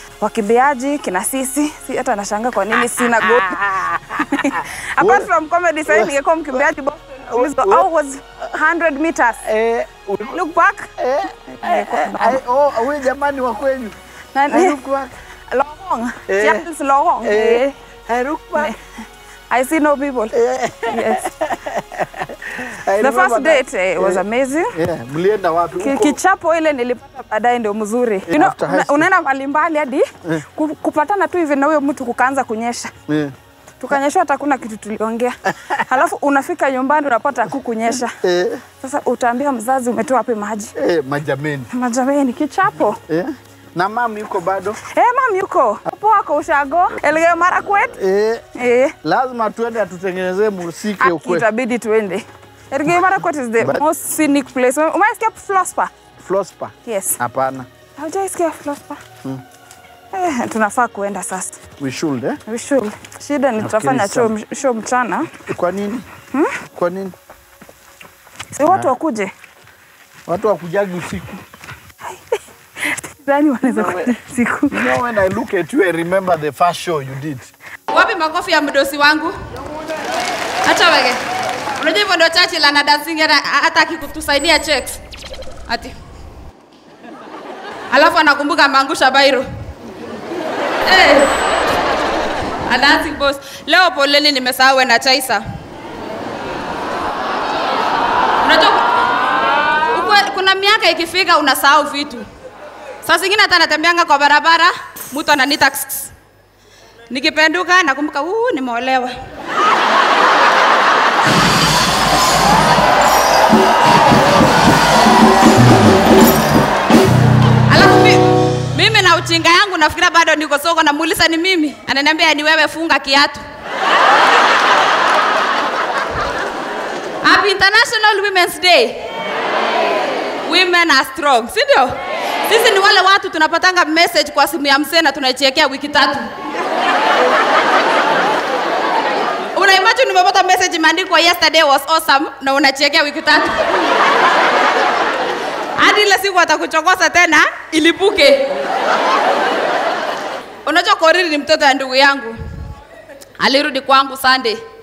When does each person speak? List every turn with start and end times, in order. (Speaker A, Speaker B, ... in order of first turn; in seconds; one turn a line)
Speaker A: 0.2-3.6
Speaker B: 2.8-5.3
Speaker A: 4.2-9.5
Speaker B: 5.9-6.7
Speaker B: 7.3-7.9
Speaker B: 9.4-10.4
Speaker A: 10.2-12.4
Speaker B: 11.0-14.0
Speaker A: 14.3-14.8
Speaker B: 14.5-15.1
Speaker A: 15.5-17.8
Speaker B: 16.3-16.6
Speaker B: 17.2-18.7
Speaker A: 19.5-20.4
Speaker B: 20.3-26.2
Speaker A: 20.9-21.3
Speaker A: 23.0-24.8
Speaker A: 25.8-32.9
Speaker B: 28.3-29.1
Speaker B: 33.1-33.3
Speaker A: 33.8-38.2
Speaker B: 38.2-38.6
Speaker A: 38.8-40.8
Speaker B: 40.8-41.7
Speaker A: 41.7-43.0
Speaker B: 43.1-44.8
Speaker A: 44.8-48.0
Speaker B: 47.8-48.4
Speaker A: 48.5-49.0
Speaker B: 49.0-51.5
Speaker A: 51.0-55.9
Speaker B: 56.2-57.7
Speaker A: 56.9-57.2
Speaker A: 58.0-59.0
Speaker A: 60.1-61.6
Speaker B: 61.8-62.4
Speaker A: 62.5-65.3
Speaker B: 63.6-64.3
Speaker B: 65.3-66.1
Speaker A: 66.3-66.6
Speaker B: 66.7-67.2
Speaker A: 68.5-69.3
Speaker B: 68.7-68.9
Speaker B: 70.3-71.4
Speaker A: 72.8-74.9
Speaker B: 73.6-74.2
Speaker B: 74.7-77.5
Speaker C: 77.9-79.4
Speaker C: 80.6-81.2
Speaker C: 81.8-85.0
Speaker C: 85.7-86.0
Speaker C: 87.9-89.5
Speaker C: 90.8-91.3
Speaker C: 92.7-95.4
Speaker C: 98.4-98.8
Speaker C: 99.9-102.3
Speaker C: 103.0-106.1
Speaker C: 107.1-109.2
Speaker C: 117.7-123.4
Speaker C: 127.2-129.0
Speaker C: 130.5-131.9
Speaker C: 132.5-136.3
Speaker C: 139.6-143.6
Speaker C: 145.8-148.5
Speaker C: 150.7-152.4
Speaker C: 153.4-154.6